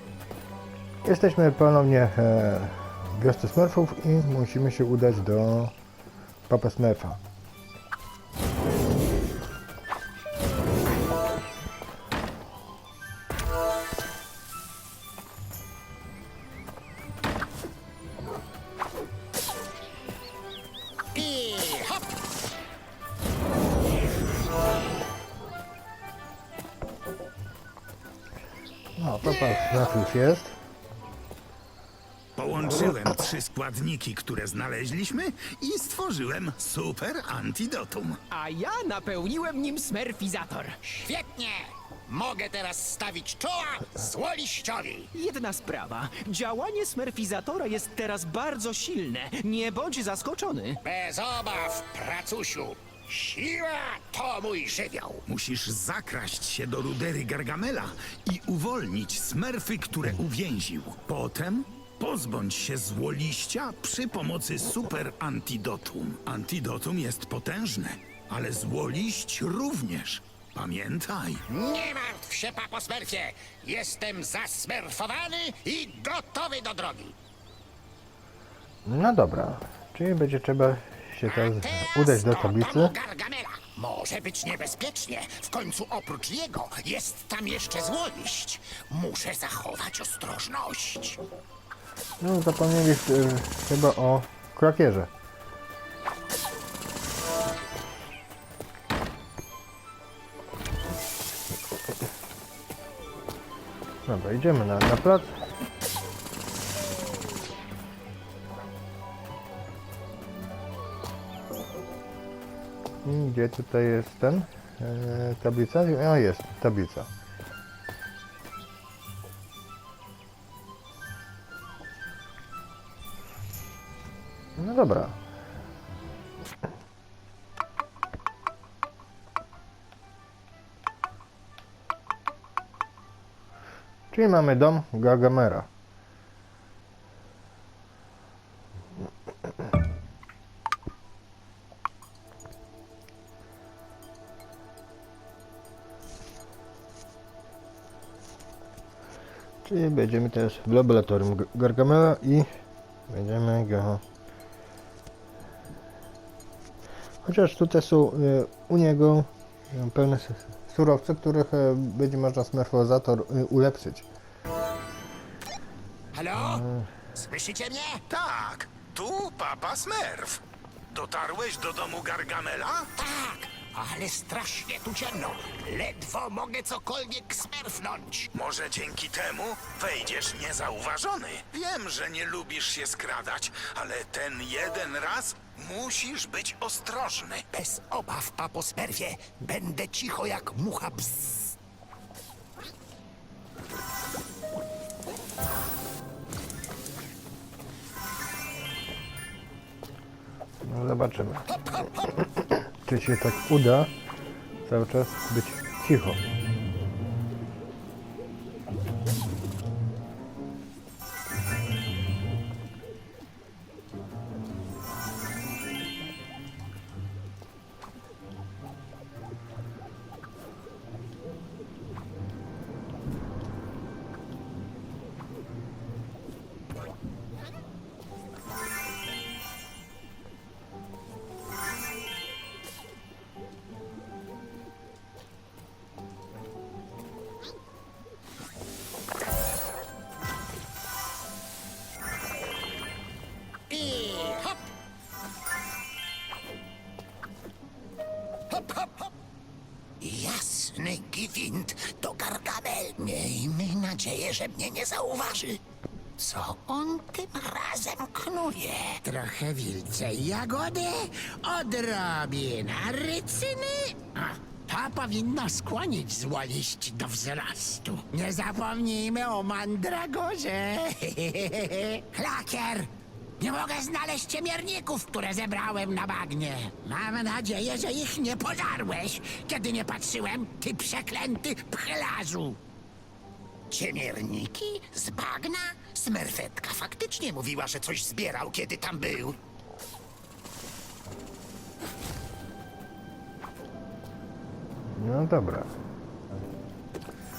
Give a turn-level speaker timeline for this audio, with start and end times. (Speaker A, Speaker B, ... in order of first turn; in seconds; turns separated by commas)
Speaker A: 1.0-5.7, Speaker A: 6.5-7.2, Speaker B: 21.1-22.1, Speaker A: 29.0-30.6, Speaker C: 32.4-38.2, Speaker D: 38.3-40.9, Speaker B: 40.9-45.1, Speaker D: 45.1-50.8, Speaker B: 50.8-55.2, Speaker C: 55.3-71.4, Speaker B: 71.5-77.2, Speaker A: 78.8-82.9, Speaker B: 81.2-91.2, Speaker A: 92.2-95.1, Speaker A: 104.0-105.4, Speaker A: 113.0-117.1, Speaker A: 124.6-125.2, Speaker A: 134.1-135.7, Speaker A: 149.6-152.5, Speaker A: 153.1-154.0, Speaker A: 157.2-164.0, Speaker B: 166.1-168.0, Speaker A: 166.6-166.8, Speaker C: 168.1-172.9, Speaker B: 172.9-178.3, Speaker C: 178.3-187.4, Speaker B: 187.5-191.5, Speaker A: 200.6-203.9, Speaker A: 204.7-206.2, Speaker B: 243.7-244.7, Speaker B: 250.0-255.6, Speaker B: 256.2-282.6, Speaker B: 283.7-289.4, Speaker A: 294.9-295.7